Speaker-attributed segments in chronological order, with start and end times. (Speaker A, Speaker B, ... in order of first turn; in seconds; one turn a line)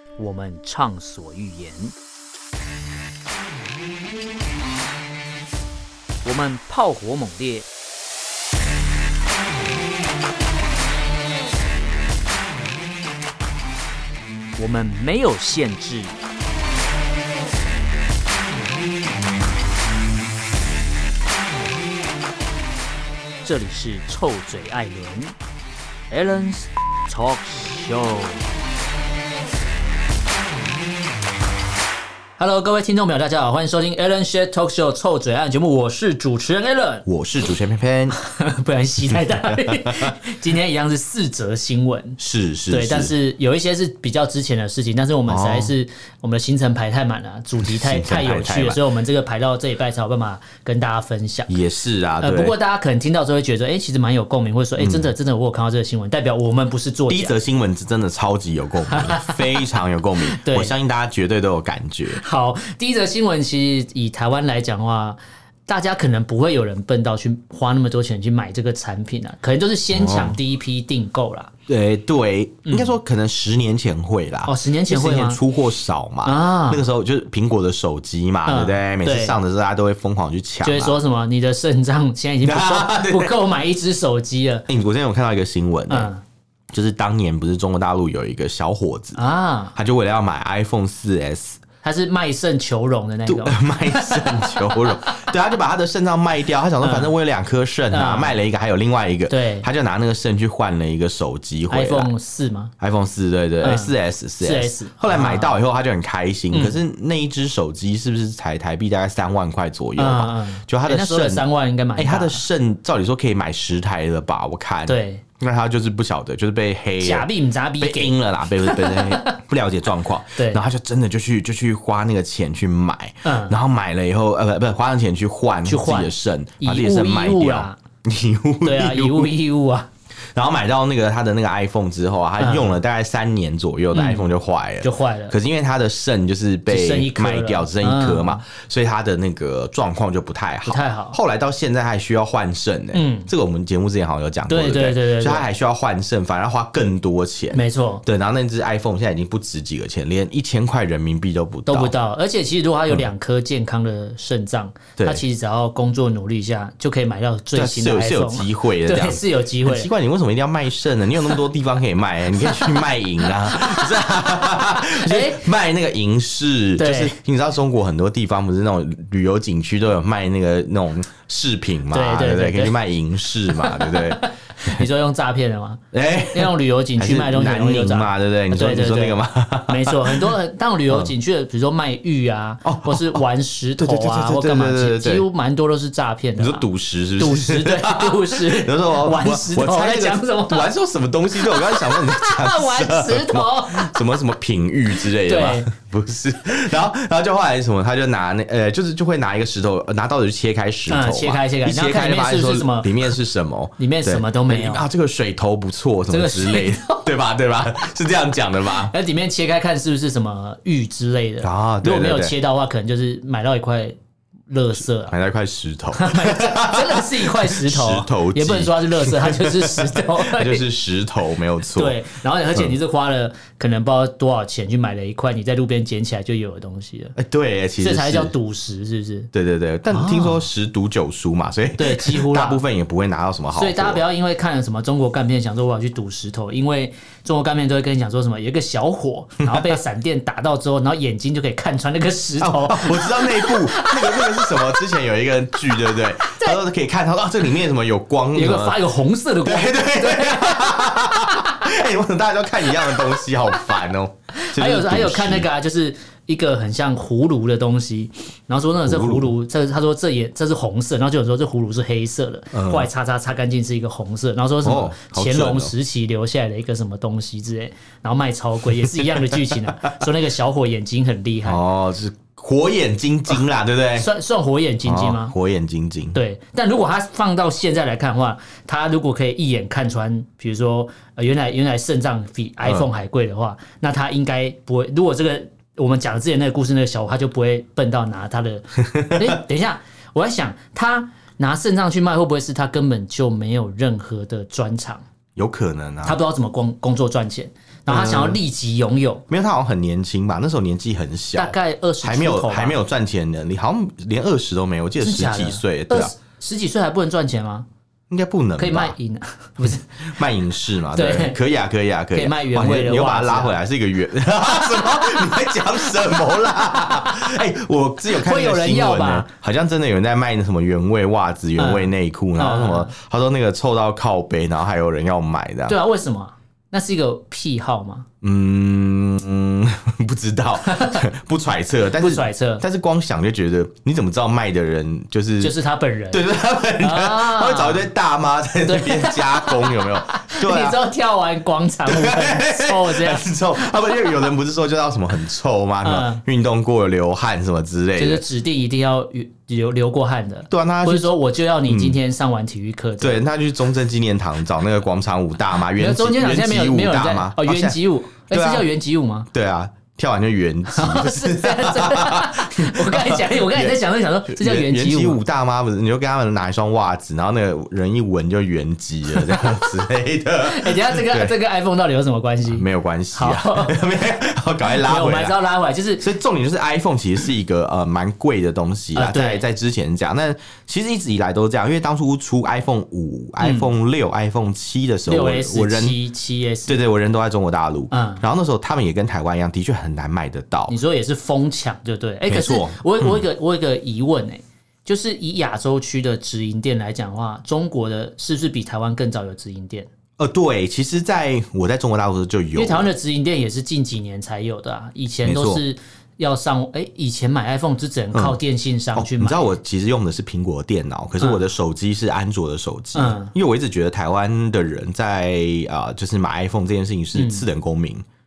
Speaker A: 0.2-1.9
Speaker A: 6.2-7.7
Speaker A: 14.6-16.1
Speaker A: 23.4-25.4
Speaker A: 26.1-28.5
Speaker A: 32.4-37.0
Speaker B: 37.1-38.2
Speaker A: 38.2-42.2
Speaker B: 39.4-40.1
Speaker B: 42.2-43.1
Speaker A: 42.7-51.5
Speaker B: 45.3-45.7
Speaker B: 47.6-48.8
Speaker B: 51.5-52.5
Speaker A: 52.2-57.4
Speaker B: 54.8-55.1
Speaker B: 57.1-62.2
Speaker A: 58.9-59.6
Speaker A: 60.2-60.7
Speaker A: 62.1-71.5
Speaker B: 69.9-70.4
Speaker B: 71.7-81.0
Speaker A: 72.7-72.9
Speaker A: 74.5-75.4
Speaker A: 76.2-76.8
Speaker A: 78.5-79.4
Speaker A: 80.6-84.7
Speaker B: 82.4-83.3
Speaker B: 84.7-86.1
Speaker A: 85.9-86.2
Speaker B: 86.7-89.2
Speaker A: 89.2-89.8
Speaker B: 89.8-91.6
Speaker A: 91.8-95.0
Speaker B: 93.3-102.1
Speaker A: 96.8-97.1
Speaker A: 97.9-98.4
Speaker A: 99.3-99.7
Speaker A: 101.7-102.7
Speaker B: 102.8-111.5
Speaker A: 103.6-105.6
Speaker A: 106.5-106.8
Speaker A: 110.0-112.4
Speaker B: 112.0-117.3
Speaker A: 114.9-115.2
Speaker A: 117.0-119.3
Speaker B: 117.8-129.3
Speaker A: 120.4-120.6
Speaker A: 123.2-123.6
Speaker A: 125.7-127.8
Speaker A: 128.6-129.9
Speaker B: 130.3-151.9
Speaker A: 132.4-132.8
Speaker A: 133.9-134.3
Speaker A: 134.8-135.4
Speaker A: 136.7-138.4
Speaker A: 140.7-141.2
Speaker A: 142.9-143.3
Speaker A: 144.5-145.5
Speaker A: 147.5-148.0
Speaker A: 151.7-159.9
Speaker B: 155.0-155.2
Speaker B: 157.5-174.8
Speaker A: 162.5-165.4
Speaker A: 166.8-167.2
Speaker A: 171.9-172.8
Speaker A: 173.5-175.8
Speaker B: 175.9-180.3
Speaker A: 176.3-186.7
Speaker B: 182.6-183.2
Speaker B: 183.8-185.2
Speaker B: 186.4-208.9
Speaker A: 187.2-190.7
Speaker A: 191.4-194.0
Speaker A: 195.0-195.7
Speaker A: 200.9-203.1
Speaker A: 203.8-204.8
Speaker A: 206.1-207.1
Speaker A: 208.7-214.0
Speaker B: 211.4-212.3
Speaker A: 214.5-215.2
Speaker B: 215.1-222.0
Speaker A: 215.9-220.7
Speaker A: 221.7-227.2
Speaker B: 227.2-228.3
Speaker A: 227.8-229.3
Speaker B: 229.3-234.0
Speaker A: 229.9-230.5
Speaker A: 231.8-232.6
Speaker A: 233.5-244.8
Speaker B: 239.4-239.8
Speaker B: 242.4-248.8
Speaker A: 245.7-246.6
Speaker A: 248.3-251.7
Speaker B: 249.4-255.5
Speaker A: 252.7-253.3
Speaker A: 254.4-271.6
Speaker B: 258.9-259.3
Speaker B: 262.5-262.9
Speaker B: 264.6-265.7
Speaker B: 271.4-274.1
Speaker A: 274.0-275.3
Speaker B: 274.9-276.2
Speaker A: 276.1-295.0
Speaker B: 288.9-289.4
Speaker B: 295.4-296.2
Speaker A: 296.0-299.2
Speaker B: 297.9-298.4
Speaker B: 299.3-306.1
Speaker A: 301.4-302.8
Speaker A: 305.0-307.7
Speaker B: 308.1-308.9
Speaker A: 308.6-309.9
Speaker B: 309.6-325.8
Speaker A: 310.9-311.4
Speaker A: 312.1-313.6
Speaker A: 314.8-315.4
Speaker A: 318.1-319.3
Speaker A: 321.6-322.9
Speaker A: 325.7-328.1
Speaker B: 328.2-335.5
Speaker A: 330.6-331.1
Speaker A: 332.0-332.6
Speaker A: 335.4-336.3
Speaker B: 336.1-340.8
Speaker A: 336.8-337.9
Speaker A: 338.7-344.3
Speaker B: 341.9-348.2
Speaker A: 345.8-346.2
Speaker A: 348.0-353.2
Speaker B: 350.5-351.1
Speaker B: 351.7-352.0
Speaker B: 353.0-357.8
Speaker A: 355.6-359.3
Speaker B: 358.3-358.7
Speaker B: 359.3-371.4
Speaker A: 360.7-365.2
Speaker A: 369.1-369.8
Speaker A: 370.4-373.8
Speaker B: 372.5-375.4
Speaker A: 374.7-376.1
Speaker B: 376.0-386.0
Speaker A: 378.9-379.4
Speaker A: 383.4-383.7
Speaker A: 385.1-386.8
Speaker B: 386.7-390.8
Speaker A: 387.9-388.2
Speaker A: 390.7-399.9
Speaker B: 392.3-393.2
Speaker B: 400.2-402.9
Speaker A: 402.6-409.5
Speaker B: 405.2-405.6
Speaker B: 408.9-418.1
Speaker A: 412.9-413.3
Speaker A: 417.1-417.4